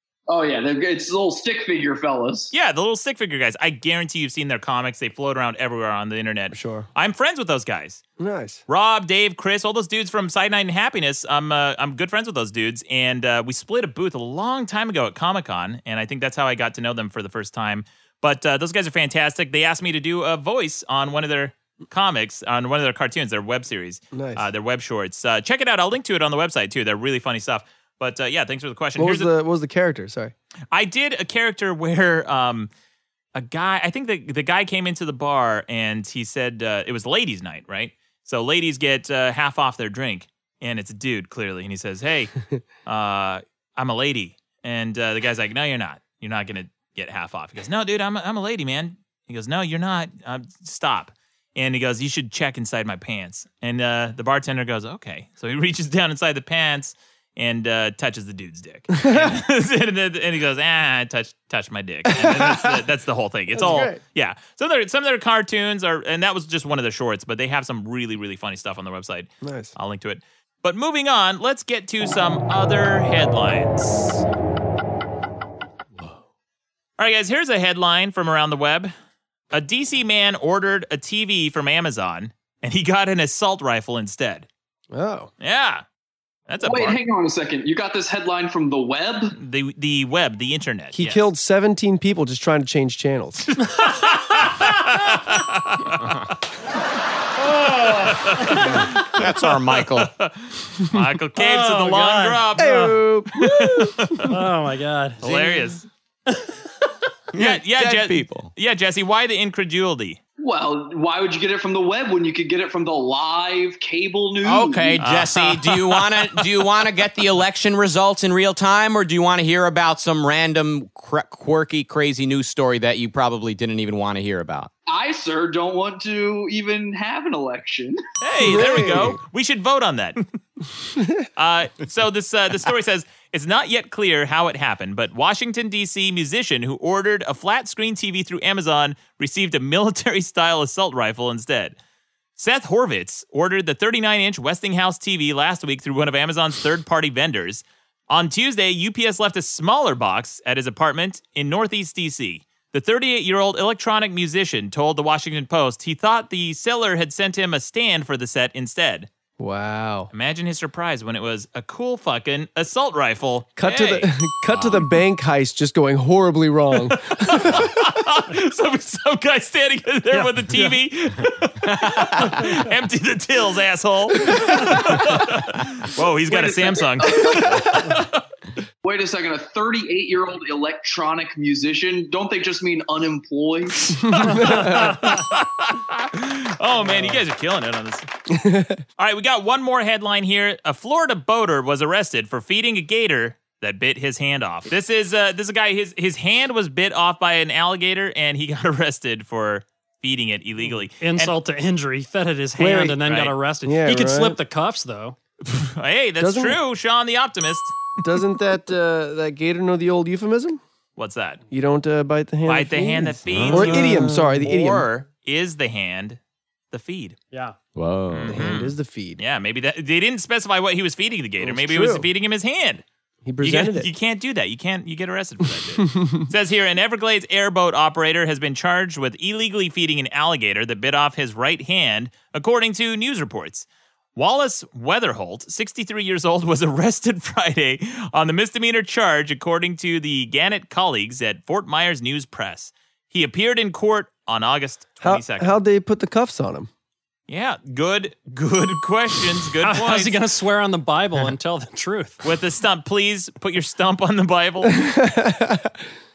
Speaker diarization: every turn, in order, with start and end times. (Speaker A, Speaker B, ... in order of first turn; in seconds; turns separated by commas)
Speaker A: 0.3-2.5, Speaker B: 2.5-8.0, Speaker C: 6.5-6.9, Speaker C: 8.2-8.6, Speaker B: 8.7-29.3, Speaker C: 24.1-24.5, Speaker C: 29.0-30.3, Speaker B: 30.7-32.7, Speaker B: 33.3-42.3, Speaker B: 42.9-74.2, Speaker C: 59.0-59.3, Speaker C: 62.1-62.8, Speaker C: 63.5-64.0, Speaker C: 69.4-69.7, Speaker B: 77.0-78.9, Speaker B: 79.5-84.5, Speaker C: 84.9-85.3, Speaker B: 85.4-85.8, Speaker B: 86.5-87.0, Speaker A: 86.6-89.3, Speaker B: 89.3-91.3, Speaker C: 90.9-93.6, Speaker B: 93.7-96.3, Speaker B: 97.6-104.3, Speaker D: 98.6-100.1, Speaker E: 101.4-103.0, Speaker C: 102.6-104.2, Speaker E: 104.3-105.5, Speaker B: 105.2-105.8, Speaker D: 107.3-108.5, Speaker B: 107.3-110.2, Speaker A: 110.4-115.0, Speaker D: 114.4-124.7, Speaker B: 115.0-116.7, Speaker A: 124.9-128.0, Speaker B: 128.2-130.2, Speaker C: 128.4-129.2, Speaker B: 131.3-141.8, Speaker B: 142.4-159.1, Speaker C: 159.4-160.1, Speaker B: 160.1-164.7, Speaker C: 163.6-167.8, Speaker B: 167.1-178.2, Speaker E: 170.1-170.7, Speaker A: 176.3-177.7, Speaker A: 178.8-183.8, Speaker B: 183.9-188.1, Speaker C: 184.2-185.1, Speaker C: 188.3-188.8, Speaker B: 189.0-201.3, Speaker E: 201.0-205.2, Speaker C: 202.6-203.0, Speaker B: 203.0-203.3, Speaker C: 203.6-204.4, Speaker B: 205.4-208.0, Speaker C: 206.2-206.6, Speaker C: 208.0-210.6, Speaker B: 211.0-211.4, Speaker C: 211.5-214.9, Speaker B: 212.4-216.2, Speaker D: 213.2-213.9, Speaker B: 216.7-217.2, Speaker D: 217.7-218.5, Speaker B: 218.1-222.8, Speaker C: 218.3-219.2, Speaker C: 221.4-222.1, Speaker C: 223.2-223.9, Speaker B: 223.4-245.6, Speaker C: 225.8-226.3, Speaker C: 245.0-246.7, Speaker B: 247.3-250.2, Speaker E: 249.6-252.2, Speaker B: 252.2-254.8, Speaker C: 254.6-255.7